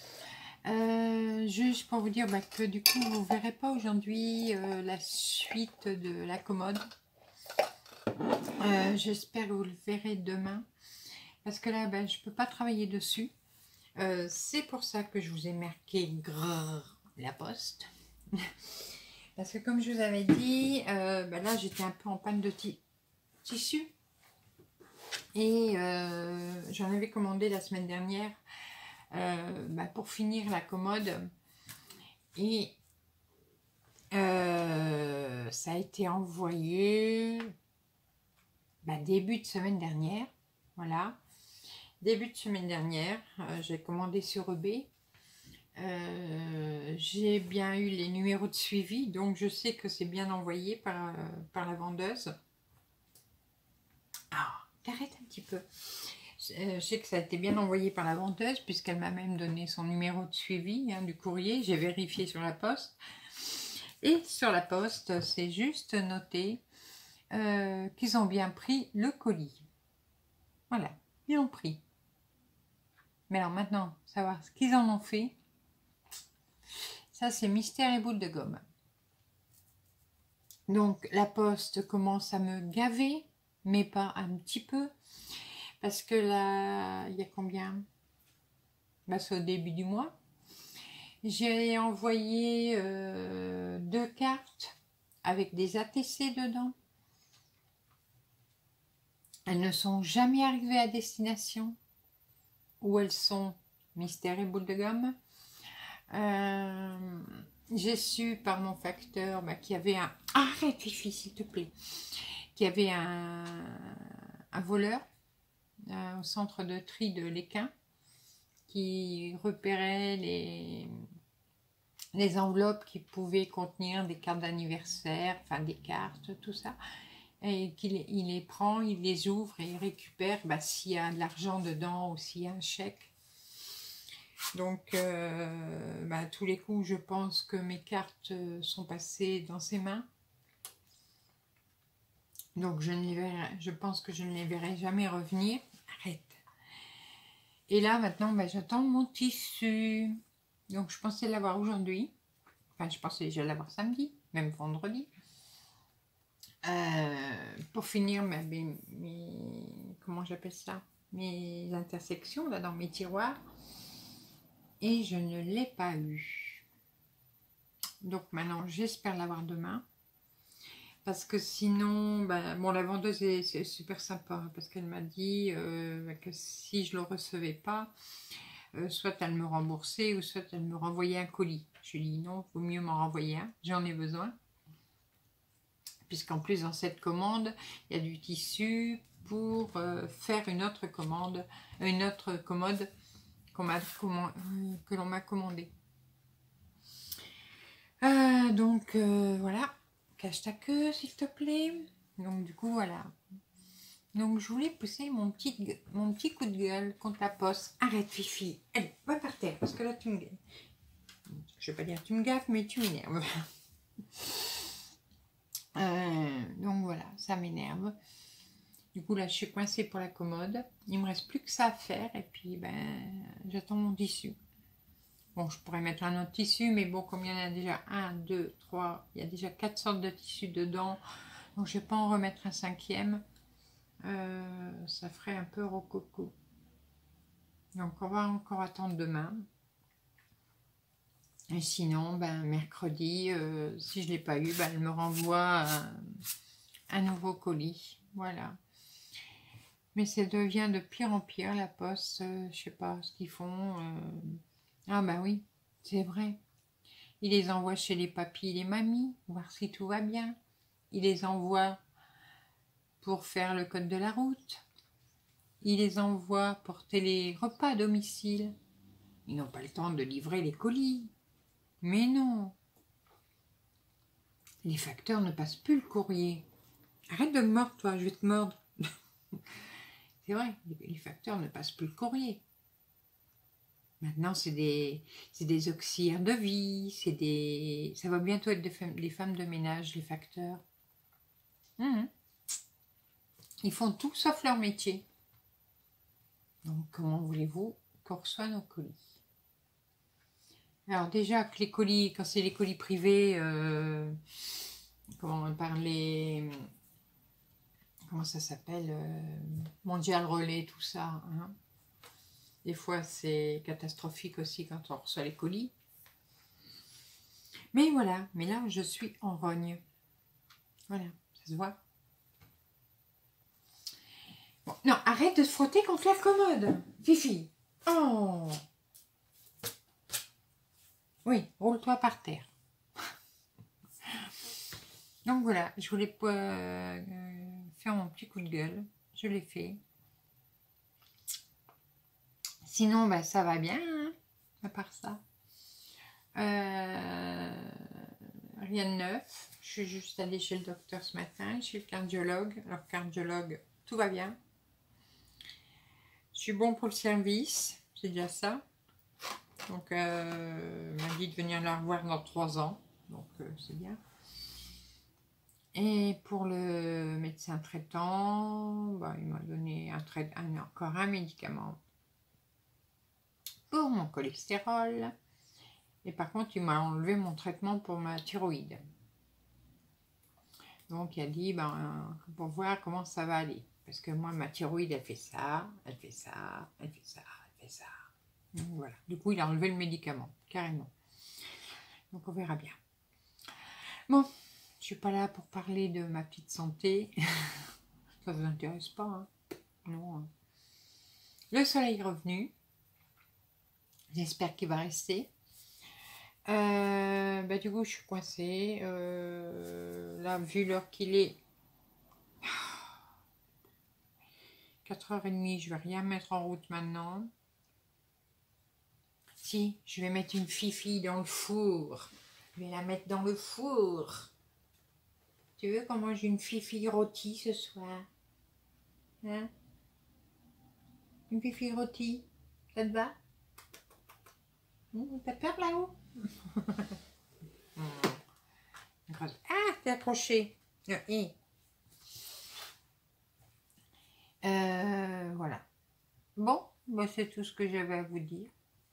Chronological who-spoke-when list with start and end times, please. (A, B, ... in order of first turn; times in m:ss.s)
0:00.6-0:06.8 A
0:08.6-0:10.7 A
0:11.4-0:13.3 A
0:14.0-0:22.8 A
0:23.4-0:23.9 A
0:25.4-0:28.4 A
0:29.1-0:31.3 A
0:32.4-0:32.8 A
0:34.1-0:37.5 A
0:38.8-0:41.2 A
0:42.0-0:44.9 A
0:45.8-0:52.3 A
0:54.3-1:06.6 A
1:07.3-1:09.7 A
1:10.7-1:11.8 A
1:13.3-1:15.4 A
1:17.1-1:18.6 A
1:20.7-1:27.8 A
1:29.1-1:30.2 A
1:31.2-1:36.8 A
1:39.4-1:41.8 A
1:42.8-1:45.2 A
1:46.1-1:55.0 A
1:55.8-1:57.7 A
1:58.7-2:01.1 A
2:02.1-2:06.8 A
2:07.4-2:13.1 A
2:14.5-2:20.1 A
2:22.5-2:26.4 A
2:27.7-2:32.1 A
2:32.8-2:35.1 A
2:36.6-2:43.4 A
2:44.8-2:46.6 A
2:48.0-2:49.8 A
2:51.0-2:57.9 A
2:58.7-3:04.3 A
3:06.1-3:12.9 A
3:13.5-3:15.7 A
3:18.0-3:23.1 A
3:24.1-3:30.4 A
3:31.3-3:33.5 A
3:34.1-3:34.7 A
3:35.7-3:38.0 A
3:38.9-3:44.4 A
3:45.3-3:51.0 A
3:51.6-3:53.2 A
3:54.0-3:56.3 A
3:57.7-3:59.4 A
4:01.5-4:06.2 A
4:06.9-4:08.6 A
4:09.9-4:16.4 A
4:17.2-4:20.4 A
4:20.9-4:21.8 A
4:23.0-4:24.6 A
4:25.6-4:28.5 A
4:29.2-4:31.1 A
4:31.8-4:32.6 A
4:34.6-4:36.4 A
4:37.1-4:39.6 A
4:40.2-4:42.4 A
4:44.0-4:50.6 A
4:51.8-4:52.1 A
4:53.6-4:55.0 A
4:56.6-4:59.1 A
5:00.9-5:06.7 A
5:08.1-5:11.6 A
5:12.6-5:15.7 A
5:17.7-5:19.8 A
5:20.9-5:21.8 A
5:24.6-5:28.6 A
5:31.2-5:32.5 A
5:34.0-5:34.3 A
5:35.2-5:39.8 A
5:42.6-5:45.2 A
5:46.3-5:54.4 A
5:56.3-5:58.6 A
5:59.7-6:04.0 A
6:05.7-6:11.8 A
6:13.7-6:15.1 A
6:16.0-6:18.8 A
6:20.9-6:30.9 A
6:32.1-6:32.8 A
6:33.6-6:39.3 A
6:39.8-6:40.3 A
6:41.5-6:42.5 A
6:44.1-6:45.3 A
6:46.5-6:51.4 A
6:52.4-6:52.9 A
6:54.8-6:57.3 A
6:59.4-7:04.3 A
7:05.6-7:08.1 A
7:09.2-7:09.5 A
7:11.3-7:13.2 A
7:14.9-7:17.0 A
7:17.8-7:18.2 A
7:19.1-7:21.3 A
7:24.4-7:25.6 A
7:26.4-7:28.5 A